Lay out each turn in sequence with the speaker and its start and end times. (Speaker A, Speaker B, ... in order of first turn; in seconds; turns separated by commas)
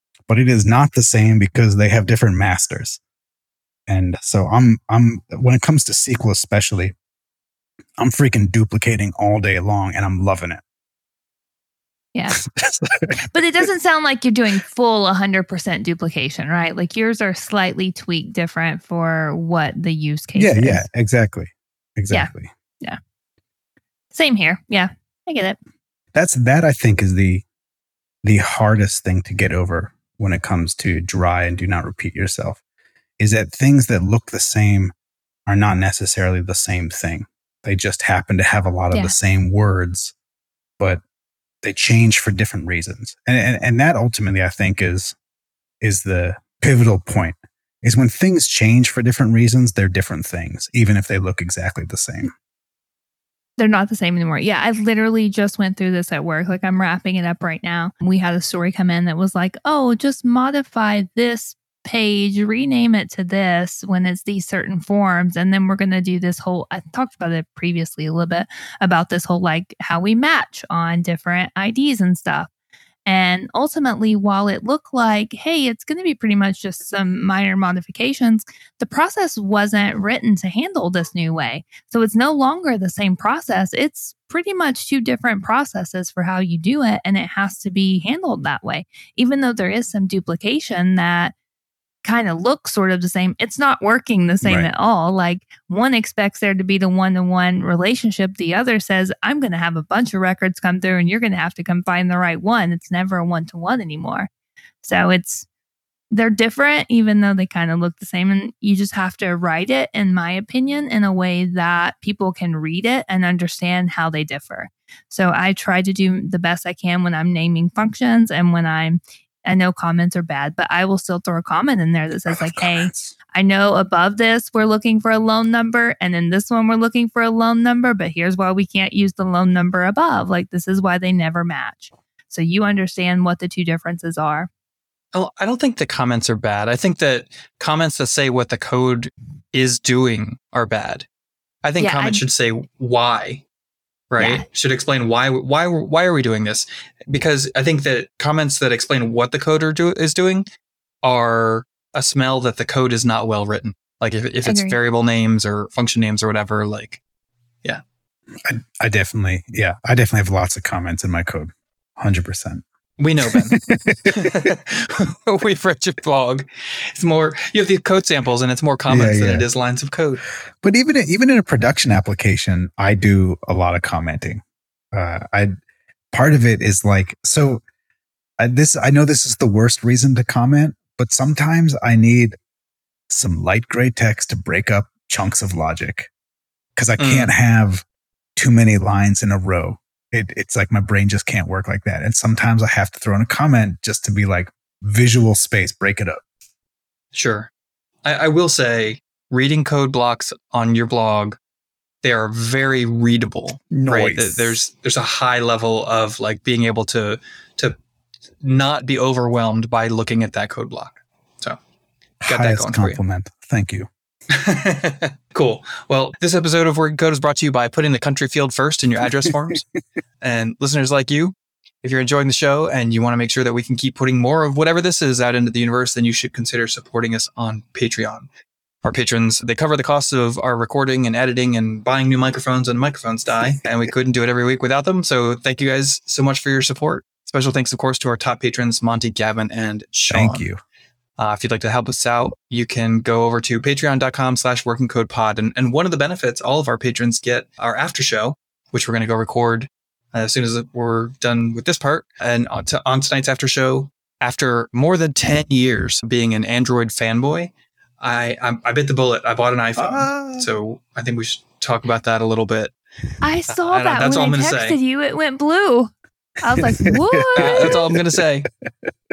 Speaker A: 0.3-3.0, Speaker A: 3.9-6.9, Speaker A: 8.0-10.6, Speaker A: 12.4-13.4, Speaker B: 13.3-20.9, Speaker A: 20.4-22.5, Speaker B: 24.1-25.6, Speaker A: 26.1-27.4, Speaker A: 28.2-32.6, Speaker A: 33.2-34.9, Speaker A: 35.5-40.1, Speaker A: 41.6-45.2, Speaker A: 45.8-52.3, Speaker B: 53.6-72.5, Speaker B: 73.1-91.3, Speaker B: 92.0-104.3, Speaker A: 94.4-94.7, Speaker B: 104.8-105.5, Speaker B: 106.1-134.5, Speaker A: 122.3-123.2, Speaker C: 135.1-141.1, Speaker C: 141.6-143.4, Speaker B: 141.8-142.2, Speaker C: 144.1-150.4, Speaker B: 144.2-144.5, Speaker C: 151.0-157.0, Speaker B: 154.5-154.8, Speaker A: 158.4-162.6, Speaker C: 163.0-170.2, Speaker A: 163.3-164.5, Speaker A: 168.9-169.5, Speaker A: 170.6-175.6, Speaker A: 176.1-177.6, Speaker A: 178.4-182.4, Speaker A: 183.1-186.1, Speaker A: 186.8-187.8, Speaker C: 187.0-187.3, Speaker A: 188.4-196.2, Speaker C: 197.1-197.5, Speaker C: 198.0-201.4, Speaker C: 202.0-207.8, Speaker A: 203.7-204.6, Speaker C: 208.4-211.6, Speaker A: 212.2-213.9, Speaker C: 212.3-213.0, Speaker C: 214.3-219.6, Speaker C: 220.2-228.3, Speaker C: 228.8-240.4, Speaker A: 240.1-240.6, Speaker C: 241.2-262.7, Speaker A: 259.8-260.5, Speaker B: 263.2-267.9, Speaker C: 263.5-264.8, Speaker A: 266.6-267.7, Speaker C: 267.4-268.5